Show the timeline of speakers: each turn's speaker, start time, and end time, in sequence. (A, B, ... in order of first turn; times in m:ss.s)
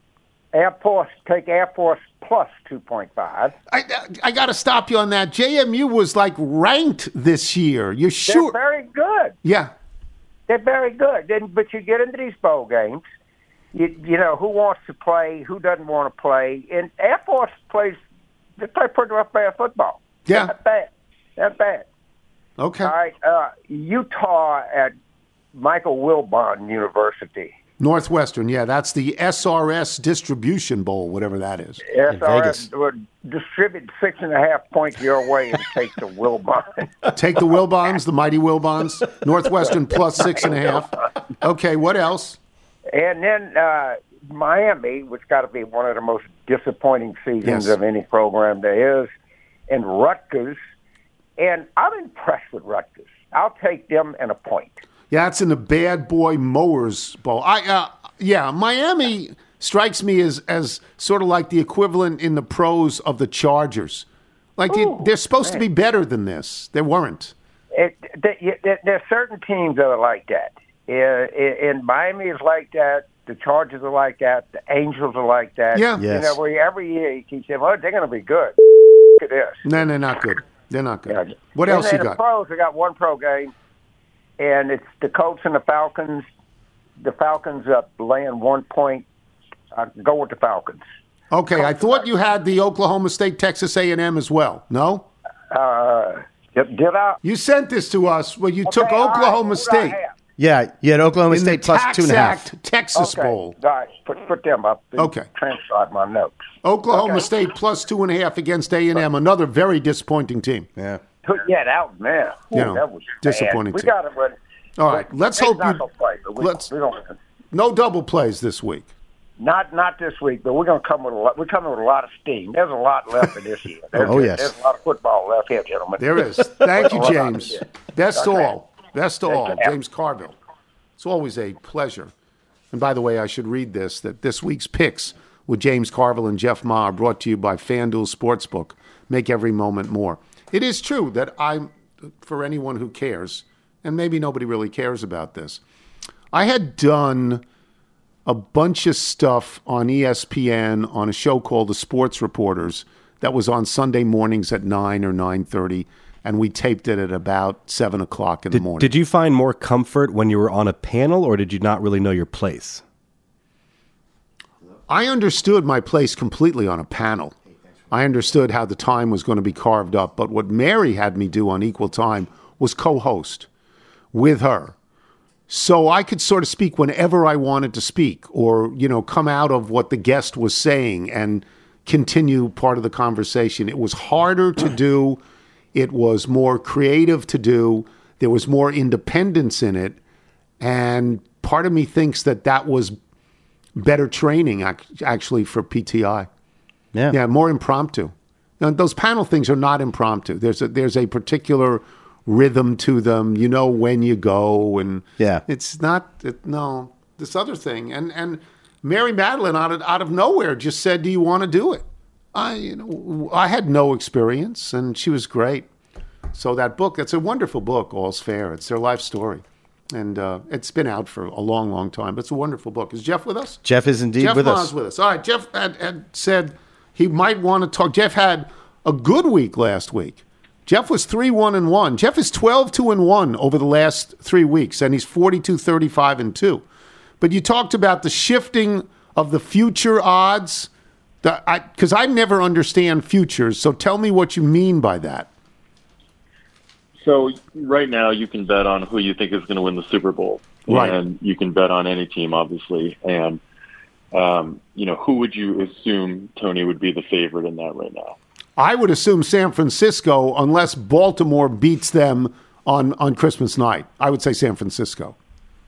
0:00.5-0:03.5 A
0:03.7-0:08.6 B
0:08.3-0:09.4 A
0:09.4-0:09.7 B
0:10.5-0:13.0 A
0:13.7-0:18.0 A
0:18.6-0:21.9 A
0:20.3-0:20.5 B
0:22.6-0:22.9 B
0:22.8-0:24.9 A
0:25.5-0:27.6 A
0:27.8-0:32.7 B
0:31.9-0:37.1 A
0:37.2-0:42.4 B
0:40.2-0:40.8 A
0:42.9-0:49.1 A
0:47.4-0:47.8 B
0:49.7-0:50.6 A
0:51.4-0:54.8 A
0:55.1-1:04.1 B
1:04.6-1:07.3 B
1:04.7-1:05.6 A
1:07.7-1:18.6 A
1:15.7-1:16.1 B
1:16.0-1:16.4 C
1:19.2-1:19.6 A
1:19.6-1:22.2 B
1:21.1-1:23.5 A
1:24.4-1:26.3 A
1:27.0-1:29.0 A
1:29.7-1:30.8 A
1:31.3-1:35.1 B
1:31.5-1:32.1 A
1:35.5-1:37.2 A
1:37.2-1:40.0 B
1:38.7-1:40.1 A
1:40.4-1:42.5 C
1:41.3-1:43.6 B
1:43.0-1:46.4 A
1:45.0-1:45.3 B
1:46.6-1:50.7 B
1:46.9-1:47.3 A
1:50.8-1:51.0 C
1:51.2-1:54.4 A
1:52.5-1:53.9 B
1:54.8-1:55.8 B
1:54.9-1:57.2 A
1:56.4-1:56.7 B
1:57.5-1:58.9 B
1:59.4-2:08.5 A
2:04.0-2:04.5 C
2:06.0-2:10.3 B
2:09.3-2:09.7 A
2:11.0-2:12.1 B
2:12.7-2:25.6 B
2:26.3-2:27.4 B
2:28.3-2:38.9 B
2:38.5-2:42.8 D
2:44.9-2:47.4 B
2:47.9-2:53.5 B
2:54.1-2:54.8 B
2:55.5-3:05.2 B
3:05.7-3:10.0 B
3:10.6-3:13.0 B
3:13.8-3:16.3 B
3:17.1-3:35.7 B
3:25.2-3:25.4 C
3:36.3-3:43.6 B
3:43.6-3:44.7 C
3:44.2-3:56.6 B
3:57.2-4:00.7 B
4:01.2-4:05.3 B
4:07.0-4:13.4 E
4:10.7-4:11.0 B
4:14.1-4:18.2 E
4:18.6-4:25.2 B